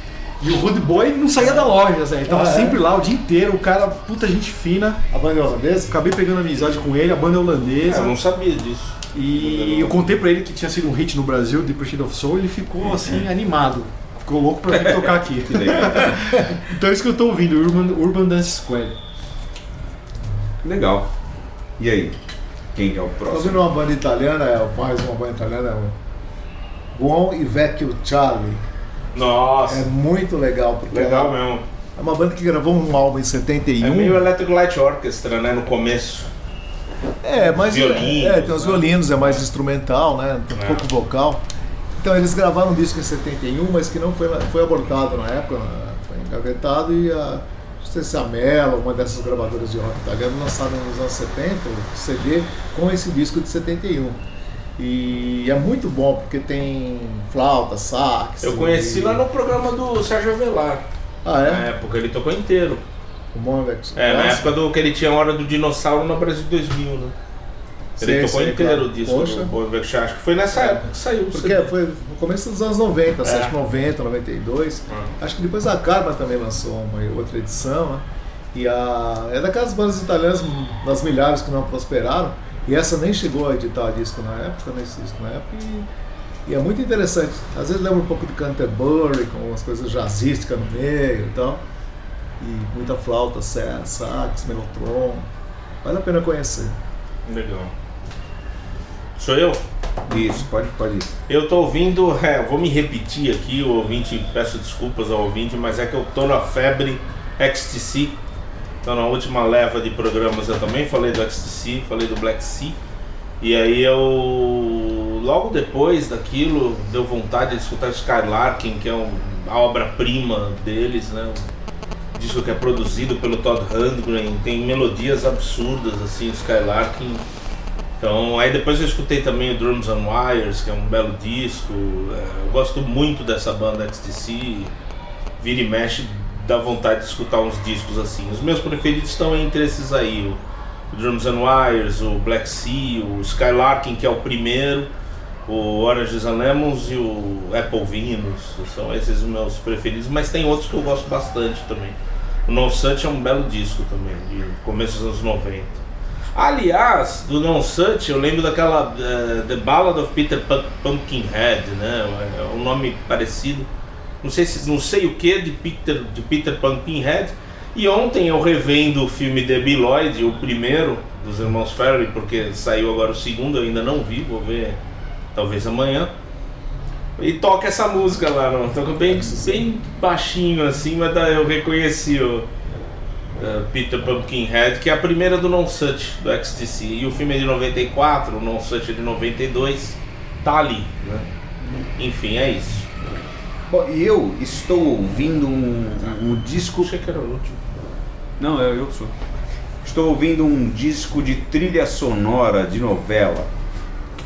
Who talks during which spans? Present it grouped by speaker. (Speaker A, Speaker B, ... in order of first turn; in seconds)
Speaker A: 0.4-5.0, 5.9-8.2, 9.1-19.0
Speaker B: 1.4-1.7, 2.3-2.8, 5.1-6.0, 23.3-26.0, 26.9-28.6, 29.7-31.4, 32.0-34.2, 37.2-41.5, 42.0-54.2, 54.8-59.2, 61.2-61.7, 63.3-64.5, 68.0-69.5, 70.5-85.9, 86.5-91.6, 92.4-95.3, 95.8-96.8, 179.0-179.7
Speaker C: 7.9-10.0, 29.1-29.9, 30.9-31.6, 33.8-36.3, 37.4-39.4, 40.5-40.9, 58.4-60.8, 61.4-62.8, 64.0-67.1, 68.0-71.7, 73.2-73.5, 97.3-97.7, 99.2-99.6, 101.3-108.2, 108.8-112.8, 113.4-121.5, 122.2-127.2, 128.0-134.7, 135.4-144.9, 145.5-155.8, 156.3-163.7, 164.2-174.8, 175.3-176.1, 177.2-182.5, 183.4-190.9, 192.0-192.9, 196.8-197.6
Speaker D: 12.8-13.2, 14.7-16.3, 20.6-21.1, 21.8-22.2, 22.7-23.6, 100.1-101.1, 193.7-196.9, 198.4-199.1, 199.8-203.5